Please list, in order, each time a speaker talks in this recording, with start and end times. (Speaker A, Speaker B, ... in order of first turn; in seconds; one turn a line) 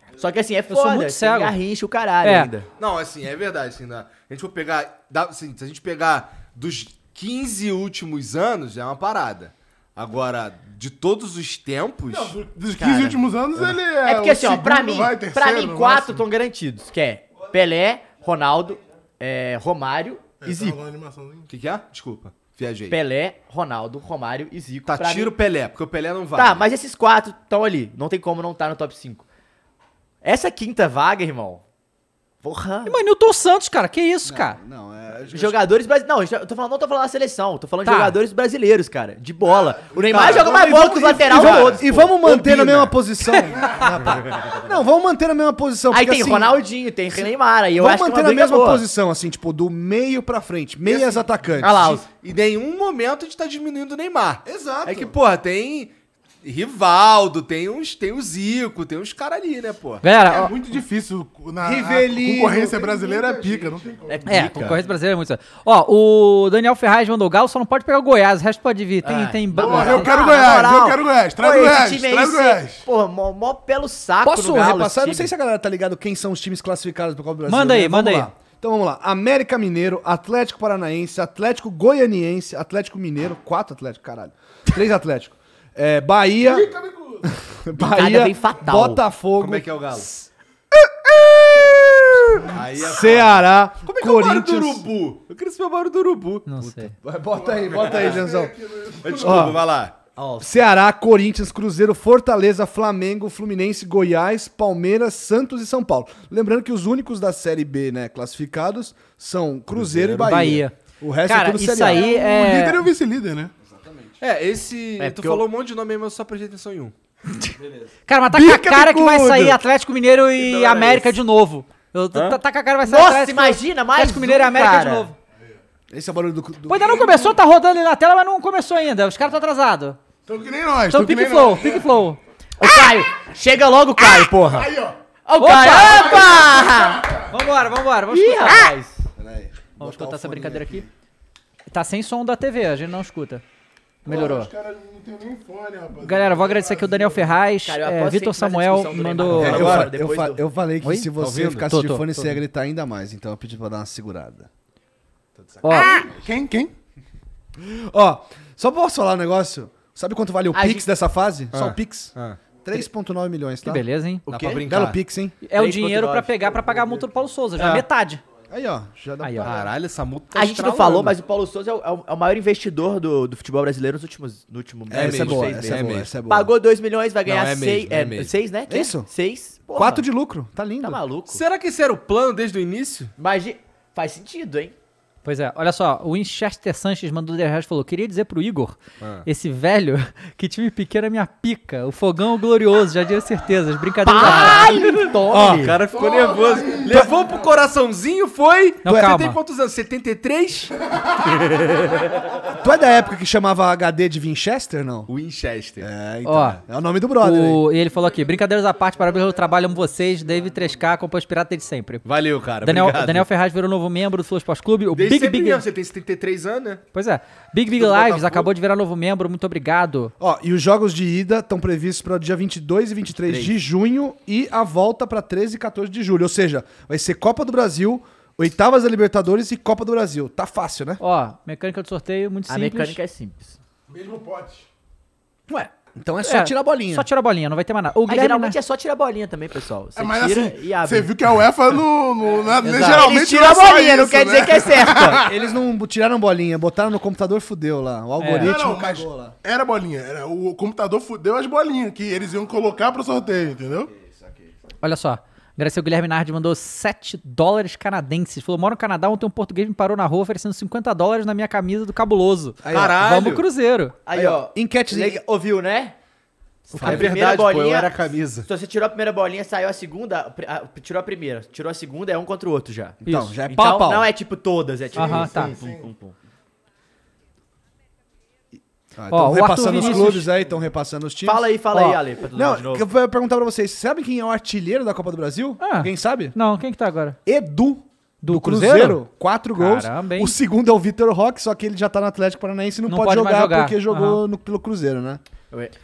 Speaker A: 0.2-2.7
Speaker B: 0.7-1.6
Speaker B: 2.2-2.5
Speaker C: 2.8-12.4
Speaker D: 12.1-16.2
Speaker A: 12.8-13.2
Speaker A: 14.0-20.8
Speaker D: 20.4-21.5
Speaker C: 21.5-23.0
Speaker A: 22.9-25.3
Speaker C: 24.9-26.6
Speaker A: 26.3-29.2
Speaker A: 30.2-31.6
Speaker A: 32.4-32.9
Speaker B: 32.9-34.6
Speaker E: 34.2-35.6
Speaker A: 35.3-42.2
Speaker B: 37.9-38.2
Speaker D: 39.4-41.8
Speaker C: 40.1-40.5
Speaker E: 40.5-46.6
Speaker C: 41.3-41.6
Speaker C: 42.2-42.9
Speaker D: 43.6-43.8
Speaker A: 45.9-48.8
Speaker E: 47.8-52.0
Speaker D: 50.9-51.2
Speaker A: 51.6-52.1
Speaker C: 51.8-60.0
Speaker E: 54.5-55.1
Speaker B: 60.0-60.5
Speaker D: 60.2-64.4
Speaker E: 61.6-63.8
Speaker A: 64.1-64.8
Speaker B: 64.3-70.1
Speaker A: 69.0-75.3
Speaker D: 69.5-72.8
Speaker E: 74.2-86.7
Speaker B: 77.5-78.3
Speaker D: 86.4-87.3
Speaker E: 87.2-94.9
Speaker A: 87.8-89.0
Speaker C: 89.4-90.1
Speaker C: 92.5-96.9
Speaker B: 96.5-96.9
Speaker E: 97.0-98.5
Speaker D: 97.3-99.5
Speaker C: 99.0-100.0
Speaker E: 99.1-99.6
Speaker A: 100.2-100.5
Speaker E: 100.4-112.1
Speaker C: 109.7-110.5
Speaker B: 110.2-110.8
Speaker B: 111.3-112.8
Speaker D: 111.9-113.5
Speaker E: 113.6-114.2
Speaker C: 114.2-116.9
Speaker A: 115.0-115.4
Speaker B: 118.1-125.2
Speaker A: 118.3-119.6
Speaker C: 120.8-121.0
Speaker A: 122.8-125.1
Speaker E: 125.9-127.4
Speaker B: 126.7-130.0
Speaker D: 130.3-131.9
Speaker B: 130.9-132.2
Speaker A: 132.6-134.7
Speaker D: 134.5-135.0
Speaker A: 135.2-137.1
Speaker B: 135.4-136.4
Speaker D: 135.6-137.3
Speaker B: 137.3-138.7
Speaker A: 138.1-139.0
Speaker E: 139.2-140.9
Speaker B: 139.8-140.8
Speaker B: 141.7-143.4
Speaker B: 144.1-144.5
Speaker D: 144.1-147.4
Speaker B: 146.0-149.8
Speaker A: 147.6-150.4
Speaker E: 149.3-154.5
Speaker C: 149.4-149.9
Speaker B: 150.8-151.1
Speaker C: 151.2-151.7
Speaker B: 151.7-152.1
Speaker B: 155.6-156.0
Speaker A: 155.7-156.0
Speaker D: 156.0-156.7
Speaker E: 157.6-165.4
Speaker A: 160.5-160.8
Speaker C: 161.5-162.4
Speaker B: 163.6-164.2
Speaker C: 164.3-165.0
Speaker B: 165.4-168.2
Speaker A: 165.5-167.1
Speaker C: 167.6-167.8
Speaker E: 168.5-169.6
Speaker B: 169.2-169.5
Speaker C: 169.4-171.2
Speaker A: 170.3-180.0
Speaker E: 174.9-176.5
Speaker C: 174.9-176.1
Speaker C: 177.2-178.3
Speaker E: 178.7-179.1
Speaker E: 179.7-181.0
Speaker A: 180.8-181.4
Speaker C: 181.3-183.1
Speaker A: 183.2-184.8
Speaker B: 185.2-194.9
Speaker C: 189.0-189.3
Speaker A: 194.0-195.8
Speaker C: 194.3-194.9
Speaker E: 195.3-195.8
Speaker C: 195.4-200.7
Speaker D: 195.9-197.1
Speaker B: 198.8-199.4
Speaker E: 202.5-205.1
Speaker C: 205.1-205.9
Speaker E: 205.8-207.6
Speaker B: 206.3-206.6
Speaker B: 207.2-212.1
Speaker C: 212.1-213.3
Speaker B: 212.6-215.6
Speaker C: 214.9-216.8
Speaker B: 216.9-220.1
Speaker C: 217.7-218.5
Speaker E: 220.2-231.0
Speaker A: 223.3-223.5
Speaker B: 231.0-233.0
Speaker A: 232.5-233.6
Speaker D: 233.9-234.7
Speaker E: 235.5-237.1
Speaker B: 236.2-238.6
Speaker A: 238.1-241.1
Speaker D: 240.0-245.3
Speaker B: 242.6-243.1
Speaker A: 242.8-245.2
Speaker E: 245.2-249.3
Speaker B: 248.2-248.6
Speaker D: 248.4-253.9
Speaker E: 253.9-254.5
Speaker B: 254.8-264.0
Speaker E: 262.6-263.0
Speaker C: 262.7-263.4
Speaker A: 264.1-265.9
Speaker E: 264.1-265.2
Speaker A: 266.7-267.9
Speaker E: 266.8-267.1
Speaker C: 266.8-268.5
Speaker A: 268.4-276.1
Speaker E: 273.0-274.1
Speaker D: 274.9-275.9
Speaker B: 274.9-275.6
Speaker E: 278.9-281.6
Speaker B: 279.1-280.3
Speaker A: 281.2-282.9
Speaker B: 281.7-282.0
Speaker E: 282.3-286.4
Speaker B: 285.6-287.2
Speaker E: 287.3-295.2
Speaker B: 288.2-289.0
Speaker B: 289.6-290.4
Speaker B: 292.9-294.2